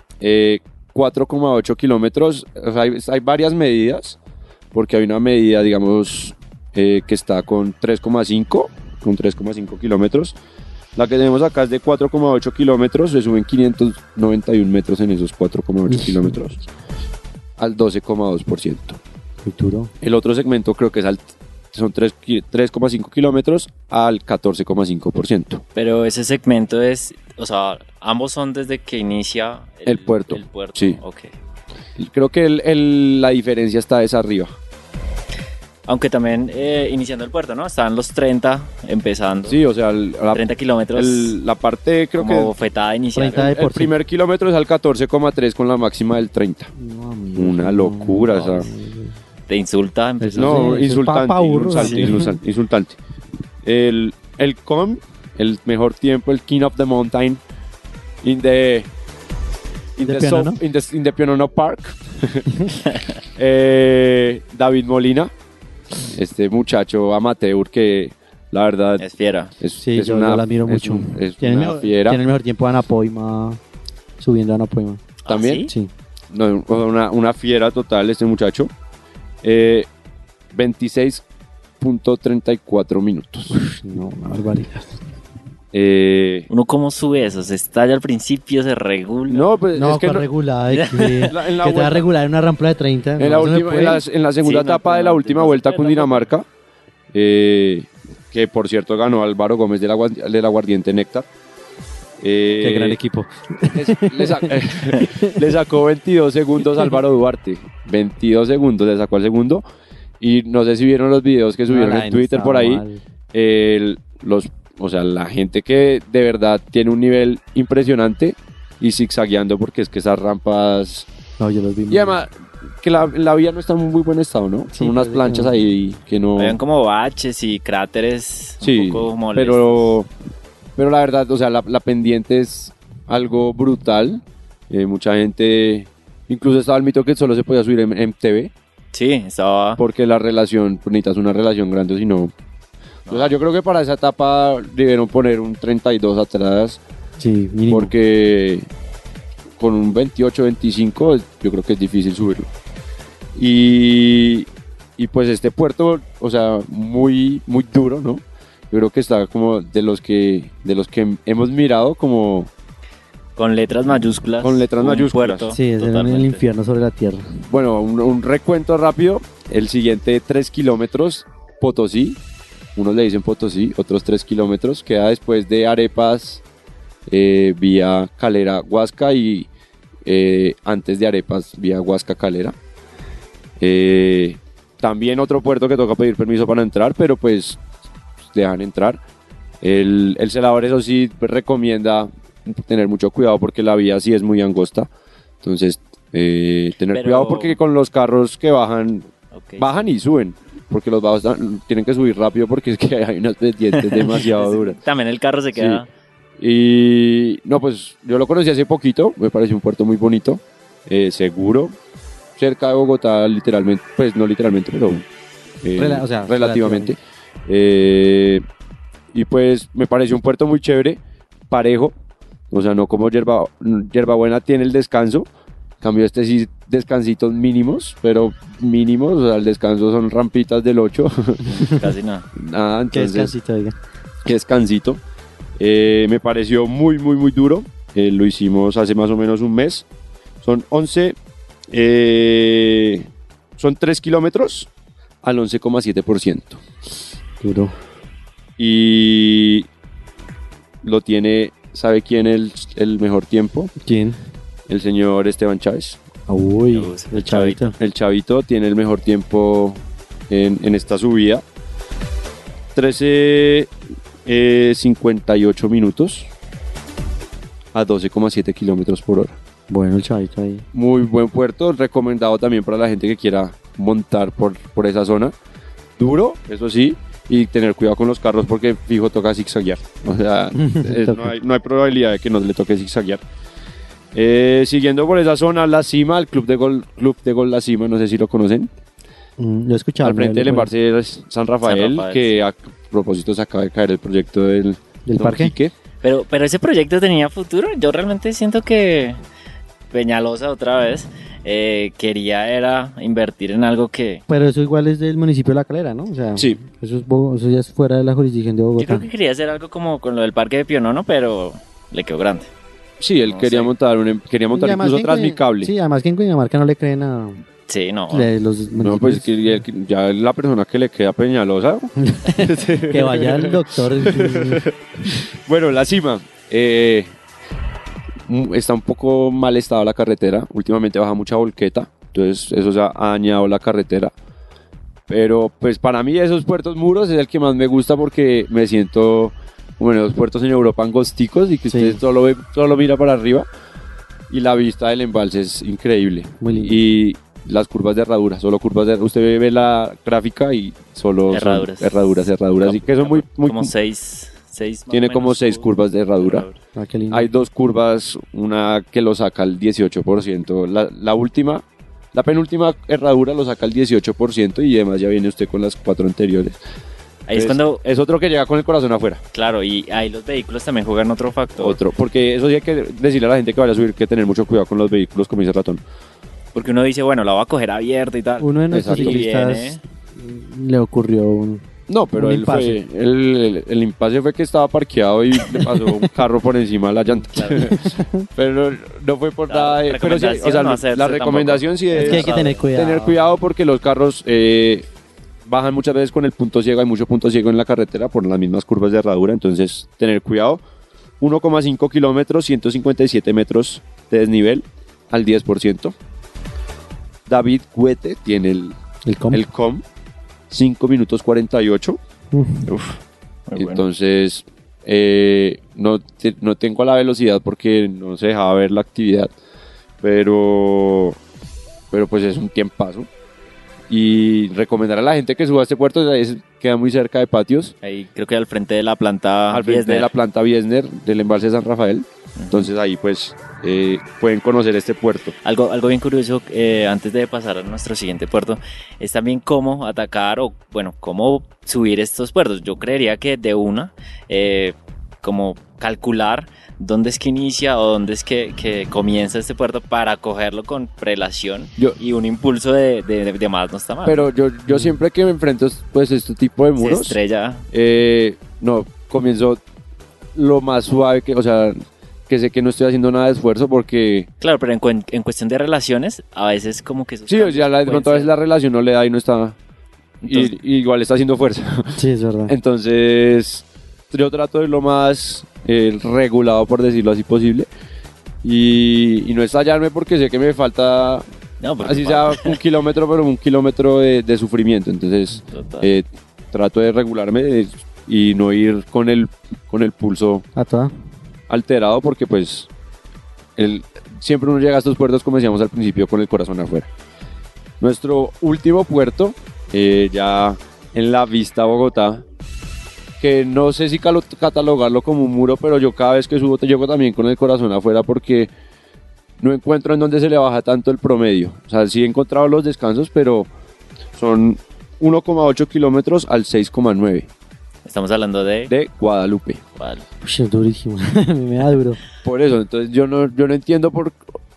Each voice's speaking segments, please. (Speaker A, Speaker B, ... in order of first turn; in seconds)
Speaker A: 0.2-4.2, 4.7-10.3, 10.9-16.6, 17.6-19.0, 20.0-25.6, 29.8-31.0, 32.0-34.5, 39.5-42.5, 43.3-46.7, 47.4-48.7, 50.4-53.0, 53.6-57.4, 58.2-58.9, 60.0-62.6, 63.4-65.3, 66.1-69.0, 69.6-72.2, 75.3-75.7, 76.3-78.7, 79.4-79.9, 80.5-81.2, 81.8-83.5, 85.7-86.5, 89.3-90.3, 91.3-92.1, 93.2-96.5, 97.1-101.3, 102.2-103.0, 103.7-109.6, 110.2-121.1, 121.9-126.6, 128.6-130.1, 130.8-138.5, 139.8-142.3, 143.1-146.8, 147.7-148.7, 149.6-152.5, 153.3-162.5, 164.4-165.5, 167.5-172.2, 172.8-176.4, 177.1-179.5, 180.0-182.5, 183.6-187.6, 188.3-189.0, 189.6-194.9, 195.4-204.8, 205.5-205.8, 206.4-211.8, 212.4-215.1, 215.6-218.4, 219.1-221.9, 222.5-225.3, 225.8-231.5, 232.3-233.3, 234.2-235.0, 235.6-239.8, 240.4-241.2, 241.7-244.7, 245.2-246.6, 248.6-249.7, 250.8-253.7, 254.7-256.0, 257.8-261.4, 262.7-263.7, 264.2-266.3, 267.7-269.4, 270.7-275.3, 276.0-283.2, 284.1-288.7, 290.0-295.7, 313.0-315.7, 318.7-327.1, 328.3-334.1, 335.1-343.5, 344.3-353.7, 354.9-356.4, 357.1-366.6, 367.3-369.2, 371.6-375.8, 378.7-379.2, 381.9-394.9, 395.4-400.6, 401.2-405.9, 407.3-408.8, 409.3-409.8, 410.5-412.0, 413.6-419.3, 420.0-421.2, 421.9-423.1, 423.9-427.7, 429.5-435.3, 454.0-457.2, 457.7-459.6, 460.3-464.3, 467.3-469.6, 470.2-477.7, 478.4-481.2, 481.8-490.4, 491.5-492.7, 493.6-496.9, 497.8-502.2, 503.2-508.5, 509.4-513.5, 514.1-517.3, 518.7-519.6, 522.2-524.2
Speaker B: 15.9-16.3, 19.4-19.9, 43.1-43.9, 46.8-49.1, 50.2-52.4, 60.0-60.6, 69.8-73.6, 74.2-75.0, 83.5-85.0, 89.7-94.0, 102.6-105.4, 111.7-113.0, 121.4-122.2, 124.7-125.5, 147.2-147.9, 165.5-167.3, 215.8-216.9, 232.9-233.8, 247.4-247.7, 253.8-254.2, 256.3-257.7, 269.7-270.6, 280.5-281.3, 289.4-290.7, 295.0-295.5, 304.3-309.1, 314.5-317.4, 318.1-319.3, 322.0-324.6, 341.7-342.0, 346.4-346.8, 356.8-357.3, 378.4-381.6, 382.2-382.8, 385.6-386.1, 387.5-388.2, 391.9-393.1, 409.0-409.4, 412.3-412.7, 472.0-472.5, 490.6-490.9, 520.2-522.0
Speaker C: 25.7-31.3, 35.9-39.6, 40.3-41.4, 42.2-43.5, 49.5-50.8, 51.7-52.0, 69.0-69.5, 75.2-75.7, 86.5-89.5, 90.7-91.3, 94.4-96.3, 126.3-129.9, 138.9-139.8, 143.1-143.3, 163.4-166.4, 196.9-197.6, 199.3-199.7, 203.7-205.9, 231.5-232.3, 256.7-257.7, 291.6-292.4, 296.0-299.2, 299.9-304.2, 308.8-312.5, 313.2-313.7, 317.7-318.3, 351.3-356.5, 367.3-367.8, 369.3-371.8, 376.5-379.8, 387.3-387.7, 389.5-392.7, 412.6-413.8, 427.8-430.1, 432.4-432.7, 435.4-454.2, 456.8-457.6, 464.4-468.3, 481.6-482.6, 485.5-485.9, 517.8-518.7, 519.8-520.0